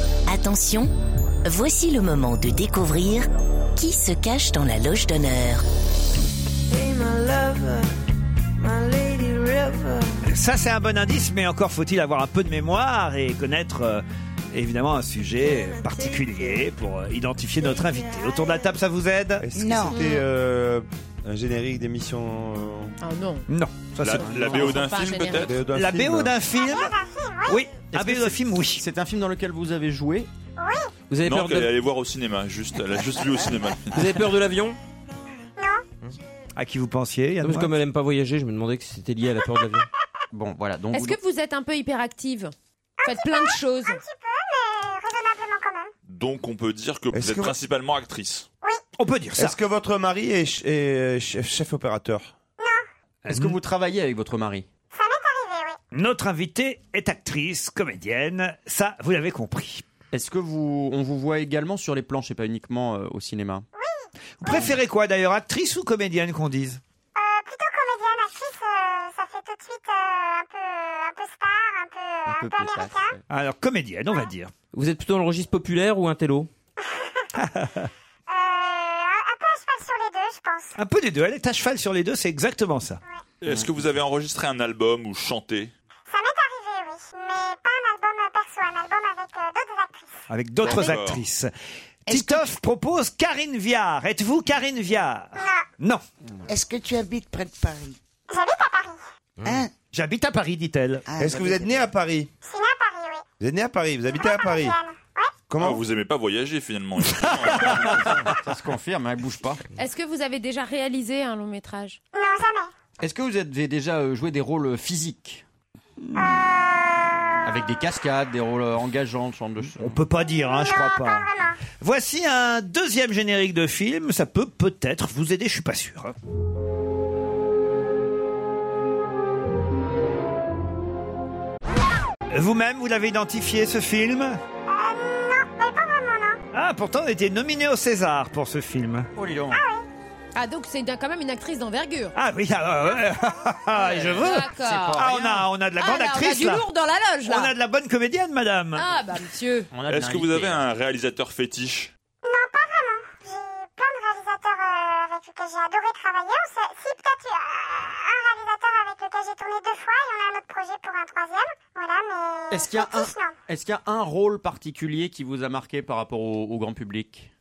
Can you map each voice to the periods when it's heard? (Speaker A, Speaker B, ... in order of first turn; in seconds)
Speaker A: 0.3-0.9, 1.4-5.6
Speaker B: 6.7-7.9, 8.6-10.2, 15.4-16.6, 17.6-18.6
Speaker C: 10.2-19.4, 23.5-24.9, 25.7-26.9, 27.5-28.8, 36.5-37.7, 49.0-49.5, 53.3-53.5, 55.9-59.8, 64.4-66.8, 73.3-74.5, 77.3-77.9, 80.8-83.0, 90.3-91.5, 92.1-96.0, 99.9-101.0, 119.8-126.1, 132.3-134.4, 136.5-139.1, 142.1-146.7, 147.2-148.9
Speaker D: 19.4-23.0, 25.4-26.4, 47.1-47.5, 49.4-52.3, 101.2-102.3, 103.4-104.8, 105.5-105.8
Speaker E: 19.6-20.0, 92.1-92.5, 96.5-98.0, 99.4-99.7, 101.1-101.9
Speaker F: 19.9-20.2, 23.0-23.4, 24.4-25.5, 40.9-42.5, 43.0-44.0, 109.8-112.0, 140.3-142.1, 143.9-145.0, 145.8-147.5, 148.8-149.7
Speaker G: 24.0-25.5, 31.2-34.0, 46.1-48.5, 83.4-85.7, 90.6-91.2, 105.6-108.3, 149.9-151.9
Speaker H: 26.5-27.7, 30.6-30.9, 35.6-35.9, 43.0-45.9, 52.6-52.8, 54.9-55.8, 63.7-64.7, 67.2-73.2, 76.8-77.2, 78.3-80.8, 86.1-90.2, 95.3-95.7, 98.3-99.0, 102.4-103.2, 104.1-105.4, 112.1-112.7, 120.3-121.6, 134.7-136.4, 139.5-139.8, 152.2-163.4
Speaker I: 27.9-30.3, 40.3-41.2, 53.3-54.6, 60.1-63.6, 72.2-73.2, 108.0-109.6, 113.0-115.4, 117.4-120.0, 139.2-139.6, 143.8-145.5, 149.7-150.7, 162.5-167.3
Speaker J: 31.1-31.8, 33.9-34.8, 37.4-39.9, 74.7-76.5